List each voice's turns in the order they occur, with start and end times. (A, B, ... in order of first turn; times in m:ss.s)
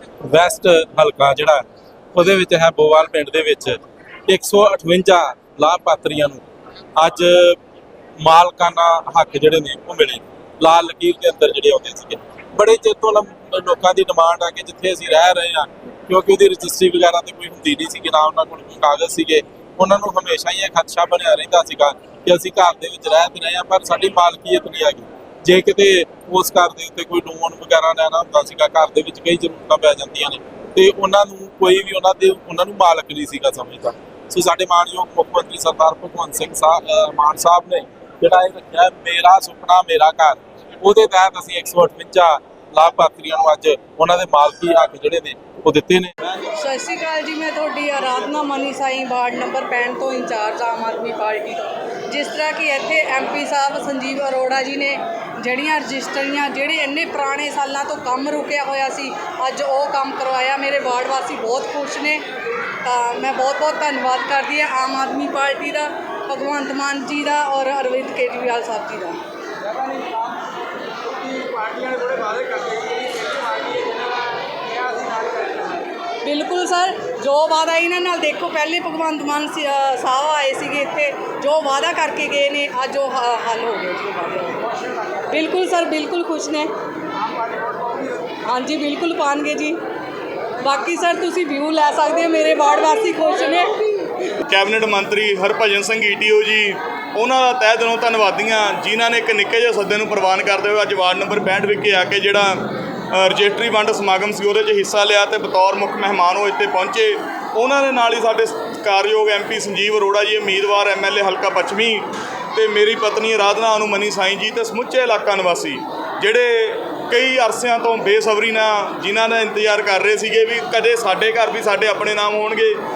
0:00.3-0:01.6 A
0:02.1-0:06.4 A
0:07.0-0:07.6 A
0:08.2-0:46.1 A
0:46.5-1:02.2 B
1:02.8-1:09.2 B
1:09.6-1:10.4 C
1:11.0-1:15.9 C
1:16.2-1:24.6 B
1:25.3-1:26.7 B
1:27.6-1:28.3 C
1:28.4-1:29.8 B
1:30.6-1:34.0 B
1:34.5-2:02.8 D